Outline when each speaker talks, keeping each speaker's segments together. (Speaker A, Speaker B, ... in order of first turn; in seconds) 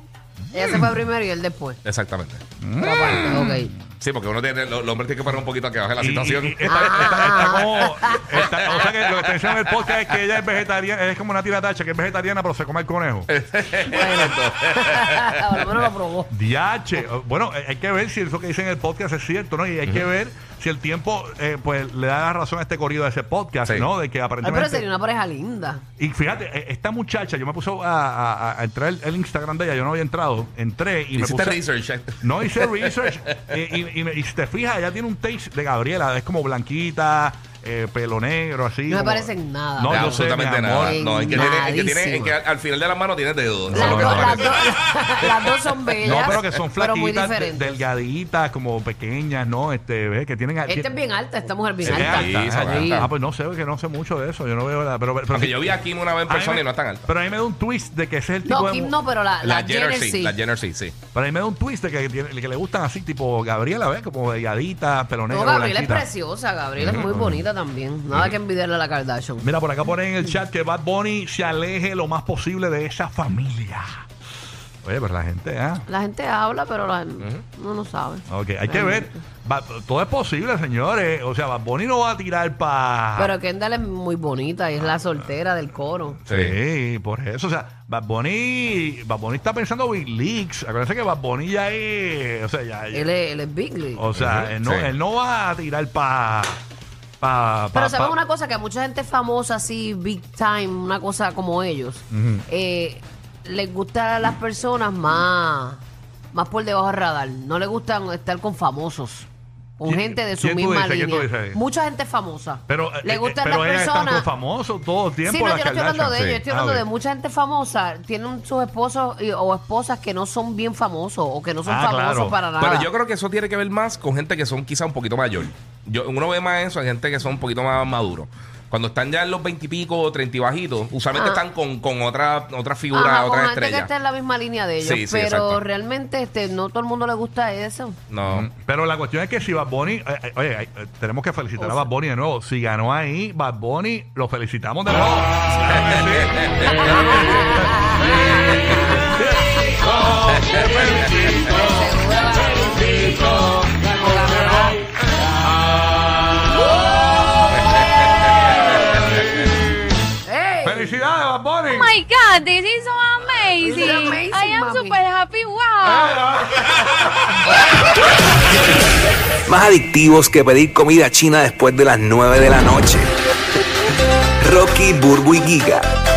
Speaker A: 0.5-0.9, 2.6-3.8, 6.0-13.3, 16.3-24.9, 26.0-31.6, 32.2-41.5, 43.7-44.5, 46.0-50.9, 51.8-55.7, 56.3-58.9, 61.1-66.1, 66.8-67.5, 69.4-74.0, 74.8-75.8, 78.3-83.3, 86.2-93.1, 93.9-96.6, 97.2-98.2, 102.1-102.4, 109.8-111.6, 112.7-116.8, 121.6-122.4, 138.3-154.8, 160.6-161.9, 165.9-167.4
Speaker B: 0.5-1.8, 2.8-3.7, 6.7-8.4, 13.8-16.3, 24.4-25.8, 38.9-42.3, 43.7-47.8, 50.6-53.1, 58.4-60.4, 65.3-69.5, 75.8-79.2, 83.2-86.2, 92.9-94.0, 97.7-105.8, 106.3-109.3, 109.8-114.3, 115.2-122.9, 131.1-131.4, 132.9-138.0, 141.6-141.9, 147.0-149.2, 150.5-154.8, 160.2-161.0, 163.6-165.0
Speaker C: 1.8-2.4, 3.0-3.5, 4.0-10.0, 13.3-15.4, 31.1-33.5, 39.9-44.5, 51.8-53.1, 55.3-57.1, 59.4-61.0, 66.8-67.1, 86.3-86.5, 94.1-94.9, 116.1-116.4, 122.6-133.9, 134.8-135.6, 138.1-138.5, 145.8-146.9, 148.4-149.0, 150.5-151.1
Speaker D: 161.7-166.3
Speaker E: 169.4-173.1, 174.4-175.8